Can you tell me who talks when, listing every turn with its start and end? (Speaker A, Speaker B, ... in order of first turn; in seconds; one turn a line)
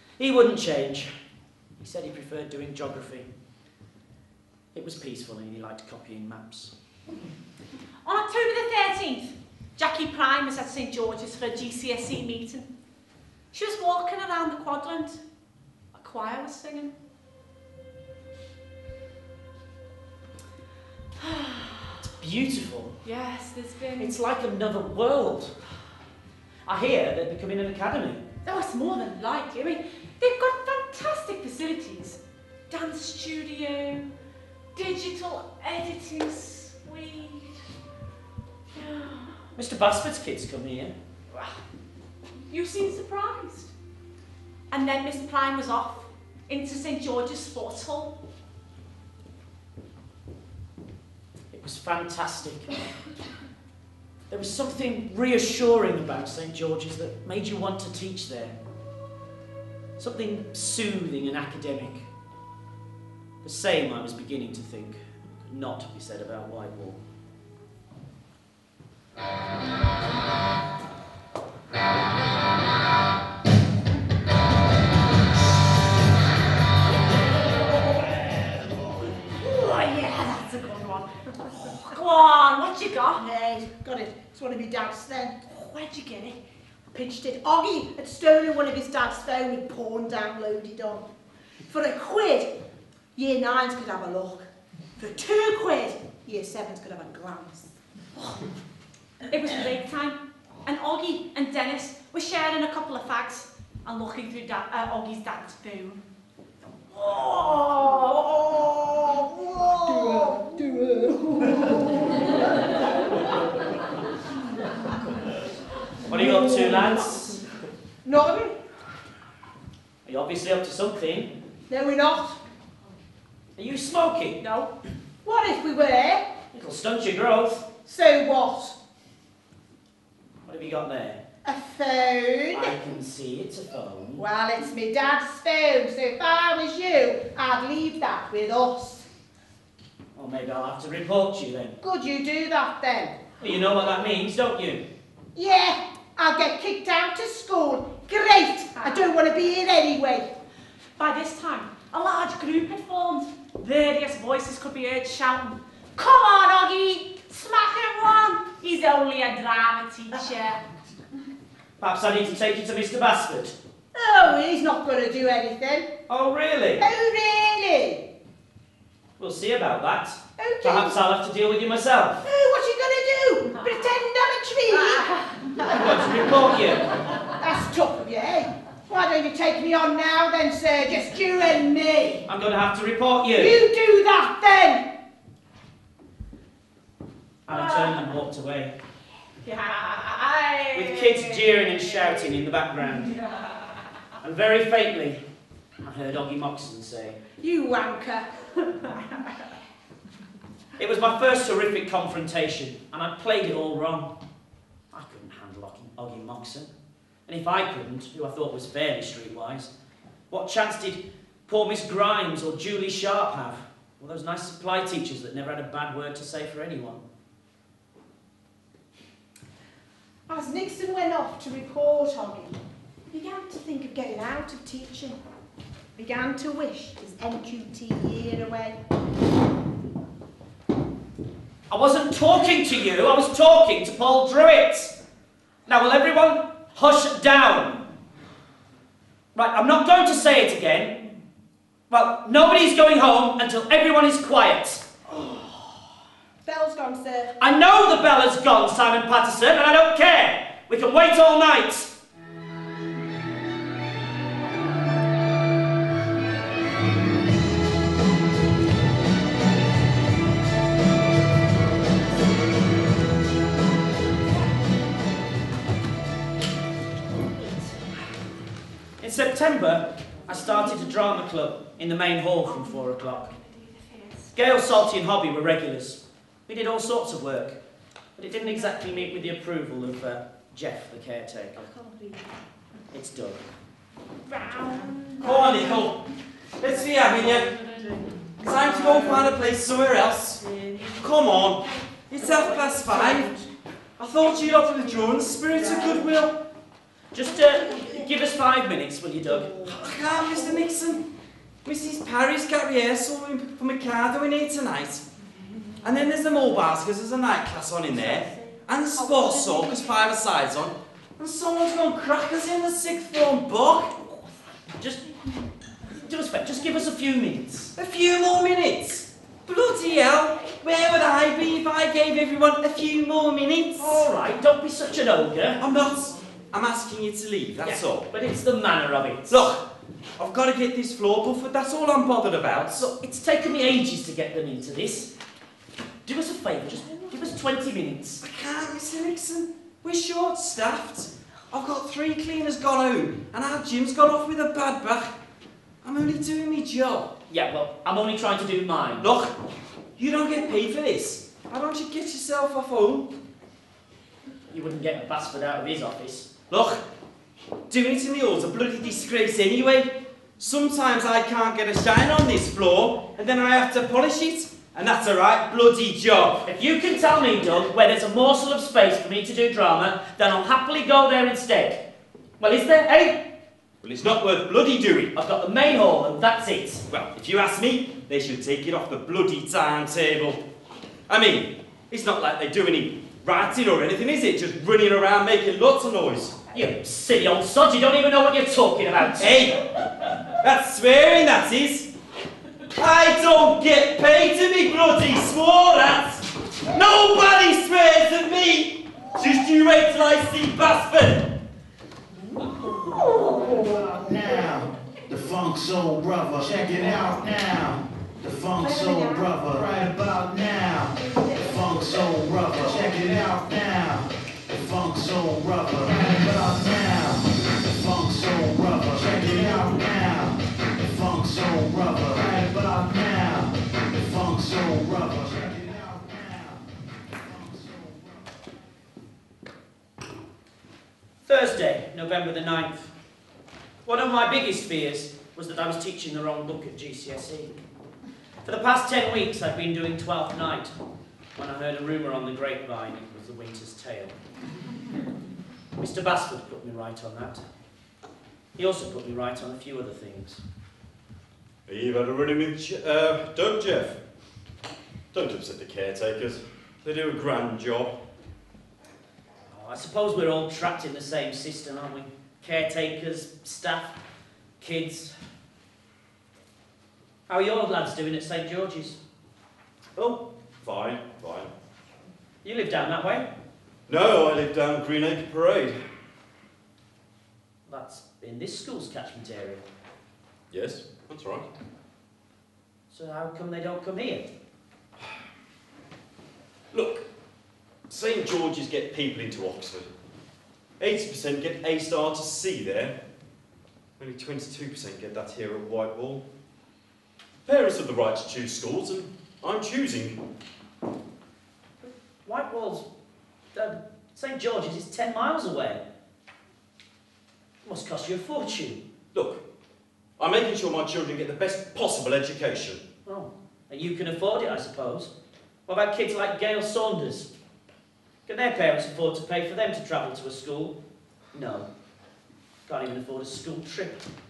Speaker A: 0.2-1.1
Speaker A: 1.8-3.3
Speaker A: 4.7-6.7
Speaker B: 8.0-12.7
Speaker B: 13.5-15.2
Speaker B: 15.9-16.9
Speaker B: 21.2-22.0
Speaker A: 22.0-22.9
Speaker B: 23.0-24.2
Speaker A: 24.0-25.5
Speaker A: 26.6-28.2
Speaker B: 28.4-34.1
Speaker B: 34.7-37.6
Speaker B: 38.7-39.5
Speaker A: 39.5-40.9
Speaker B: 41.3-41.6
Speaker B: 42.5-43.7
Speaker B: 44.7-48.1
Speaker A: 51.5-52.7
Speaker A: 54.3-58.5
Speaker A: 60.0-62.1
Speaker A: 63.4-67.0
Speaker C: 78.1-78.7
Speaker B: 79.4-83.2
Speaker C: 83.1-85.5
Speaker B: 85.5-86.4
Speaker C: 86.9-91.1
Speaker C: 91.6-92.5
Speaker C: 93.1-97.7
Speaker B: 99.3-106.0
Speaker B: 107.4-108.6
Speaker C: 107.5-112.5
Speaker A: 116.0-117.4
Speaker C: 116.1-117.0
Speaker C: 118.0-118.6
Speaker A: 120.0-121.3
Speaker C: 121.7-122.4
Speaker A: 123.6-124.4
Speaker B: 124.4-124.7
Speaker C: 125.2-126.3
Speaker A: 126.5-127.7
Speaker C: 127.8-128.8
Speaker A: 130.4-131.2
Speaker C: 131.4-132.8
Speaker A: 132.5-134.2
Speaker C: 134.2-139.1
Speaker A: 140.1-141.8
Speaker C: 141.8-143.2
Speaker A: 143.4-144.8
Speaker C: 145.3-150.3
Speaker B: 148.8-149.1
Speaker B: 151.0-160.6
Speaker A: 161.8-163.6
Speaker C: 163.9-165.9
Speaker A: 166.1-166.8
Speaker C: 166.8-168.1
Speaker A: 169.2-172.2
Speaker C: 170.4-171.0
Speaker C: 172.2-175.1
Speaker B: 174.7-175.8
Speaker A: 175.6-176.8
Speaker C: 177.2-182.2
Speaker A: 182.3-183.6
Speaker C: 183.3-184.9
Speaker A: 187.4-188.8
Speaker B: 187.5-187.9
Speaker B: 189.4-191.2
Speaker A: 190.7-193.2
Speaker A: 194.2-195.2
Speaker A: 195.8-197.2
Speaker C: 197.4-198.9
Speaker A: 200.8-204.1
Speaker A: 204.9-206.7
Speaker A: 207.3-209.7
Speaker A: 210.3-217.0
Speaker C: 220.3-222.6
Speaker C: 223.1-225.2
Speaker C: 225.9-228.8
Speaker A: 231.7-234.9
Speaker A: 235.7-237.8
Speaker A: 239.3-241.0
Speaker A: 241.9-244.8
Speaker C: 245.1-245.7
Speaker C: 246.4-247.3
Speaker A: 247.4-251.9
Speaker C: 267.2-267.7
Speaker A: 269.0-273.3
Speaker B: 272.5-274.3
Speaker A: 274.3-277.6
Speaker A: 278.1-281.6
Speaker C: 281.6-282.2
Speaker A: 282.9-283.4
Speaker C: 284.3-285.9
Speaker D: 285.2-286.0
Speaker D: 286.6-287.5
Speaker D: 288.4-290.4
Speaker D: 290.9-293.3
Speaker C: 292.2-293.4
Speaker D: 294.0-296.4
Speaker C: 295.6-296.0
Speaker A: 297.1-299.8
Speaker C: 297.3-298.1
Speaker C: 299.3-300.4
Speaker D: 299.7-301.0
Speaker D: 301.6-305.0
Speaker D: 305.8-313.9
Speaker B: 309.3-309.9
Speaker A: 315.9-317.7
Speaker D: 317.8-324.0
Speaker A: 323.8-325.6
Speaker D: 325.6-328.1
Speaker A: 327.6-329.5
Speaker D: 329.3-329.6
Speaker D: 330.2-332.9
Speaker A: 332.8-335.1
Speaker A: 336.0-338.2
Speaker D: 338.2-345.1
Speaker D: 345.8-347.1
Speaker A: 347.3-349.3
Speaker D: 349.0-349.3
Speaker D: 350.0-353.1
Speaker A: 354.5-356.4
Speaker D: 356.5-356.8
Speaker D: 357.7-366.5
Speaker A: 366.4-371.8
Speaker A: 372.4-373.2
Speaker D: 373.8-375.1
Speaker A: 375.1-376.8
Speaker D: 376.9-380.4
Speaker D: 381.1-386.4
Speaker A: 386.5-389.4
Speaker D: 389.2-389.6
Speaker D: 390.3-391.9
Speaker D: 392.7-401.4
Speaker C: 402.4-404.6
Speaker E: 403.8-426.5
Speaker C: 406.7-407.1
Speaker C: 408.5-410.0
Speaker C: 410.9-413.3
Speaker E: 427.6-428.0
Speaker A: 431.3-432.9
Speaker A: 433.9-437.5
Speaker A: 438.4-440.7
Speaker A: 441.4-444.1
Speaker A: 445.8-447.4
Speaker A: 448.6-450.4
Speaker D: 451.7-454.0
Speaker D: 455.1-457.9
Speaker A: 459.5-463.9
Speaker A: 464.6-465.1
Speaker A: 467.3-469.0
Speaker A: 469.9-470.2
Speaker D: 470.6-471.5
Speaker A: 472.4-473.3
Speaker D: 473.9-475.8
Speaker A: 477.7-479.6
Speaker D: 480.5-481.5
Speaker A: 482.9-484.2
Speaker D: 486.7-487.0
Speaker D: 487.9-489.9
Speaker D: 490.8-492.9
Speaker D: 494.0-496.2
Speaker D: 497.4-500.2
Speaker A: 501.8-502.9
Speaker A: 503.5-505.8
Speaker A: 507.6-508.8
Speaker D: 509.1-509.4
Speaker D: 510.2-512.8
Speaker A: 513.0-515.1
Speaker A: 515.7-517.3
Speaker A: 518.3-520.8
Speaker A: 521.3-521.7
Speaker A: 522.7-524.0